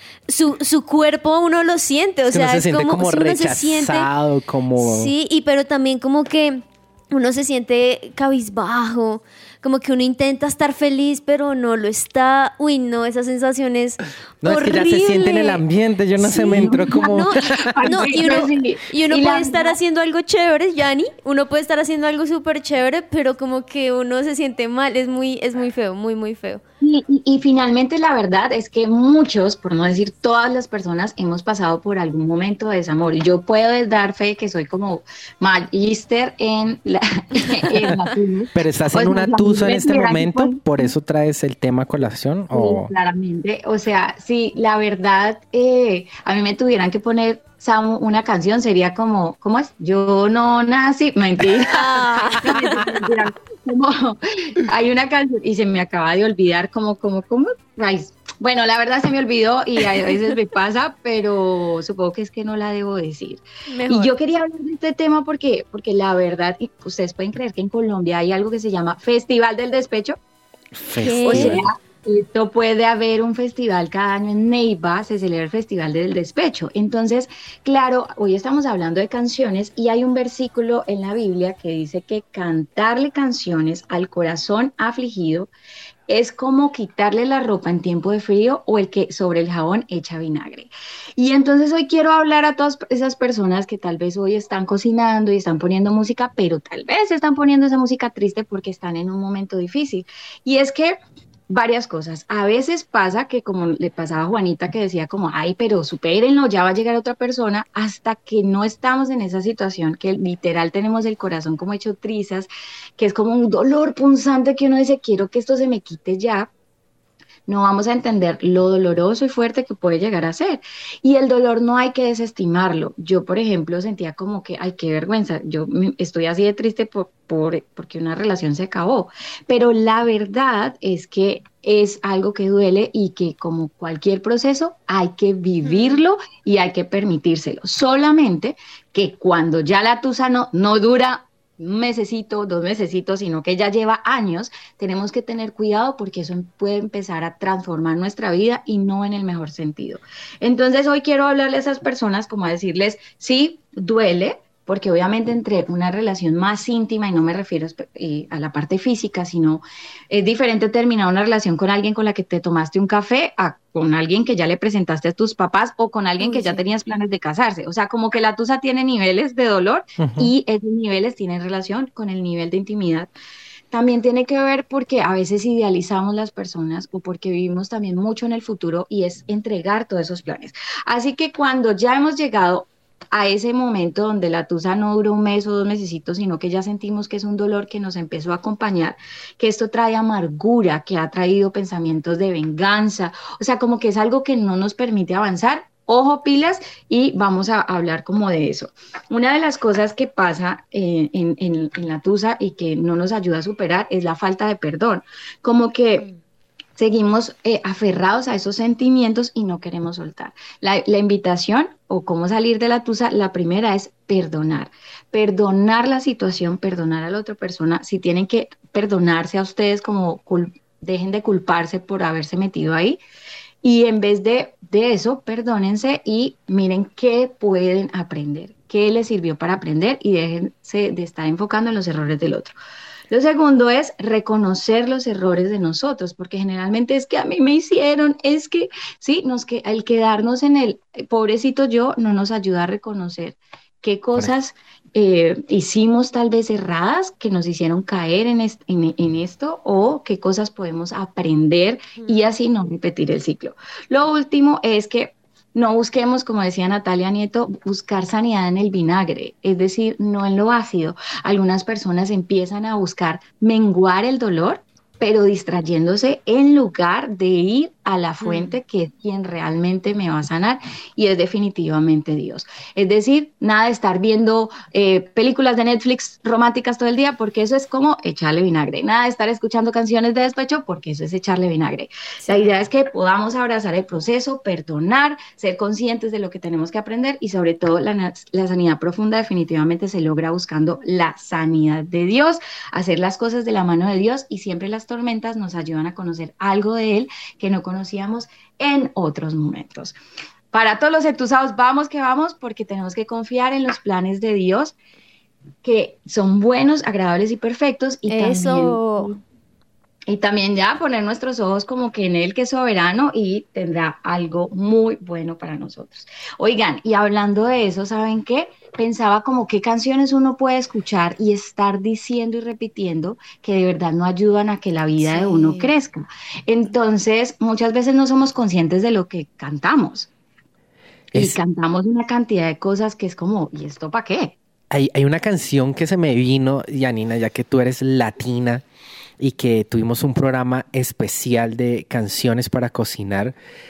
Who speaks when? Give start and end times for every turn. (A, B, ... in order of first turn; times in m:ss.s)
0:00.3-0:04.1 A
0:02.3-0:05.1 B
0:04.8-0:15.6 A
0:14.4-0:18.4 B
0:16.2-0:26.6 A
0:16.4-0:19.8 C
0:26.8-0:40.9 C
0:38.5-0:42.9 B
0:42.5-1:10.2 C
0:51.6-0:53.1 A
1:03.7-1:04.1 A
1:10.8-1:11.7 B
1:11.0-1:11.7 A
1:11.2-1:25.5 C
1:26.1-1:56.5 C
1:57.5-2:53.1 C
2:15.6-2:16.0 A
2:46.2-2:46.6 A
2:50.0-2:50.3 B
2:53.7-3:26.1 C
3:26.8-3:43.0 C
3:43.6-3:52.6 C
3:53.1-5:00.0 C
4:12.0-4:12.3 A
4:28.2-4:28.6 A
5:00.5-5:04.7 C
5:05.6-5:09.2 C
5:08.1-5:09.1 A
5:10.1-5:30.1 C
5:25.0-5:25.7 A
5:31.1-5:31.4 B
5:31.1-5:34.4 C
5:34.7-5:38.6 B
5:39.2-5:43.4 B